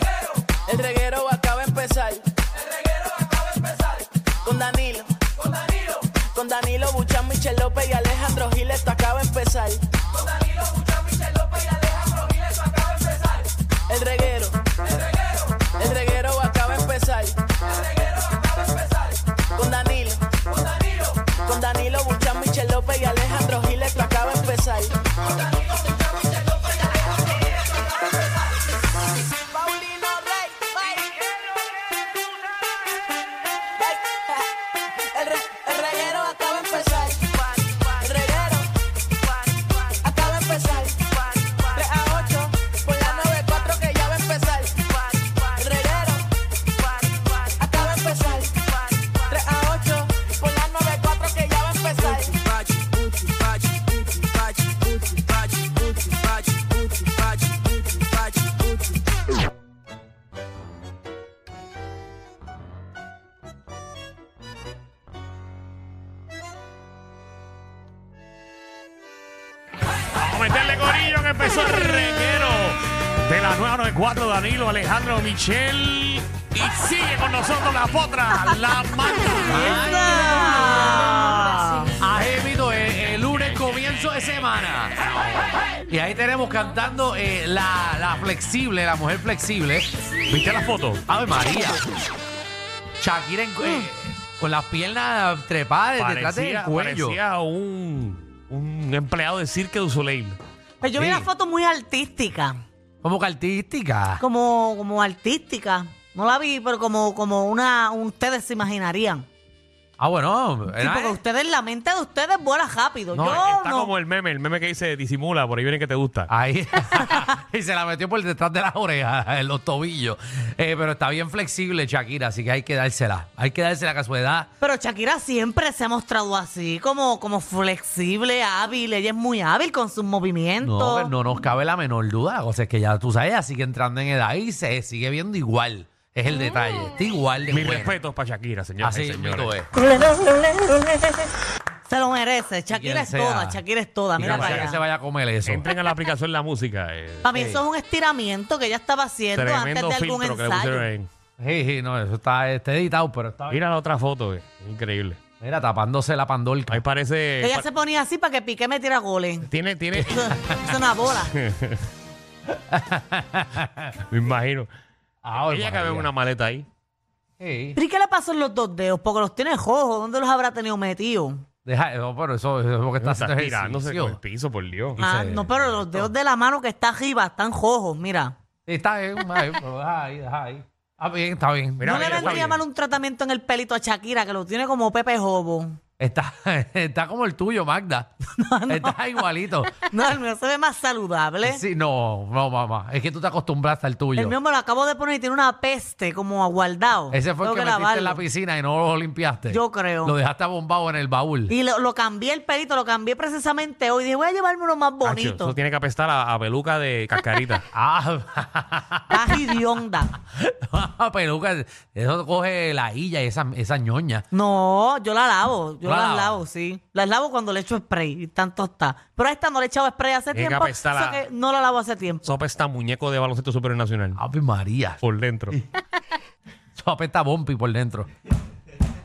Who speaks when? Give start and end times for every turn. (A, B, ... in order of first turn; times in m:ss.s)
0:00.7-0:02.3 A
0:04.4-0:05.2 A
0:05.9-0:09.9 A
0:13.9-0:14.8 A
0:15.6-0:17.6 A
0:19.5-0:20.4 A
0:21.3-0:25.0 A
0:29.5-0:31.4 A
0:33.8-0:38.7 A
0:39.6-0:46.3 A
0:46.8-0:59.0 A
1:10.2-1:19.8 B
1:19.4-1:21.9 C
1:19.5-1:21.1 D
1:22.0-1:25.0 D
1:25.9-1:29.9 D
1:30.3-1:31.0 B
1:31.1-1:31.8 D
1:33.0-1:37.2 D
1:33.6-1:33.9 C
1:36.0-1:40.4 B
1:40.8-1:42.6 C
1:41.0-1:41.3 D
1:43.0-1:44.2 D
1:44.2-1:49.3 C
1:50.0-1:51.2 D
1:50.8-1:53.9 C
1:53.1-1:56.3 B
1:56.3-2:04.5 D
2:04.6-2:11.1 C
2:10.6-2:18.0 D
2:17.5-2:19.5 B
2:18.8-2:19.7 D
2:19.8-2:21.2 C
2:21.9-2:24.8 C
2:22.7-2:23.6 D
2:24.2-2:25.7 D
2:24.2-2:24.7 B
2:25.4-2:27.3 B
2:27.2-2:30.9 C
2:27.3-2:27.6 D
2:29.4-2:31.1 B
2:31.4-2:33.6 D
2:33.5-2:35.2 B
2:35.4-2:36.8 D
2:36.7-2:37.7 B
2:37.4-2:39.5 C
2:39.5-2:40.5 B
2:40.0-2:41.3 C
2:41.3-2:41.9 B
2:42.5-2:43.9 D
2:44.0-2:44.7 B
2:45.2-2:46.1 D
2:45.4-2:46.7 B
2:47.4-2:47.8 D
2:47.8-2:51.4 C
2:51.7-2:54.2 D
2:53.0-2:55.0 B
2:55.0-2:56.1 D
2:55.0-2:58.4 C
2:58.7-3:02.6 D
3:01.8-3:02.6 B
3:01.8-3:05.8 C
3:06.0-3:08.1 D
3:08.3-3:09.1 C
3:08.7-3:09.9 D
3:09.8-3:11.6 C
3:11.4-3:14.4 D
3:14.2-3:18.2 C
3:17.1-3:21.5 D
3:19.5-3:20.2 C
3:21.5-3:25.6 C
3:25.0-3:27.6 B
3:27.7-3:29.6 D
3:29.1-3:30.1 C
3:30.3-3:34.3 D
3:34.3-3:42.3 C
3:35.8-3:36.4 D
3:40.3-3:41.2 B
3:42.2-3:44.2 B
3:44.2-3:45.6 D
3:45.0-3:45.6 B
3:46.8-3:48.1 D